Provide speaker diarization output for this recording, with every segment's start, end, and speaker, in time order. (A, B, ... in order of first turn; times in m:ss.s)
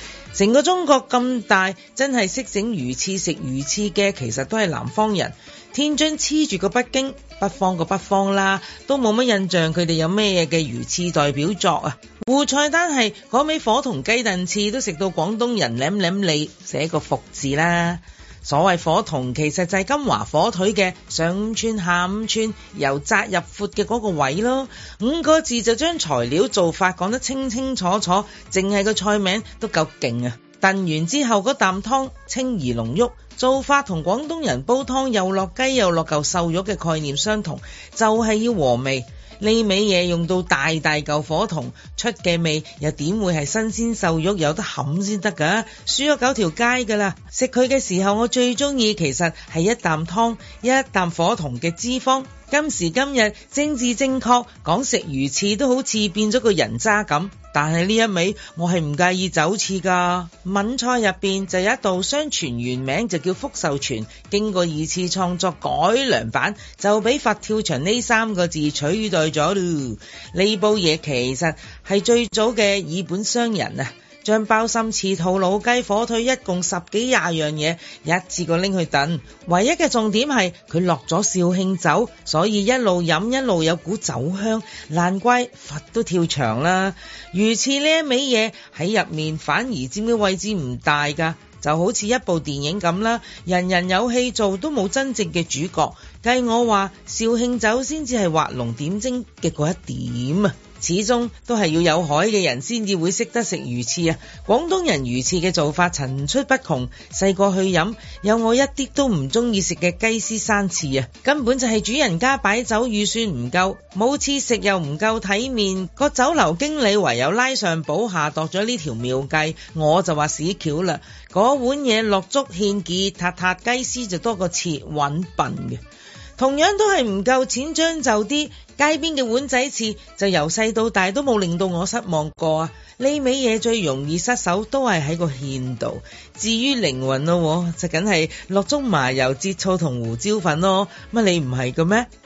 0:00.3-2:05.8 A
2:06.4-2:22.1 A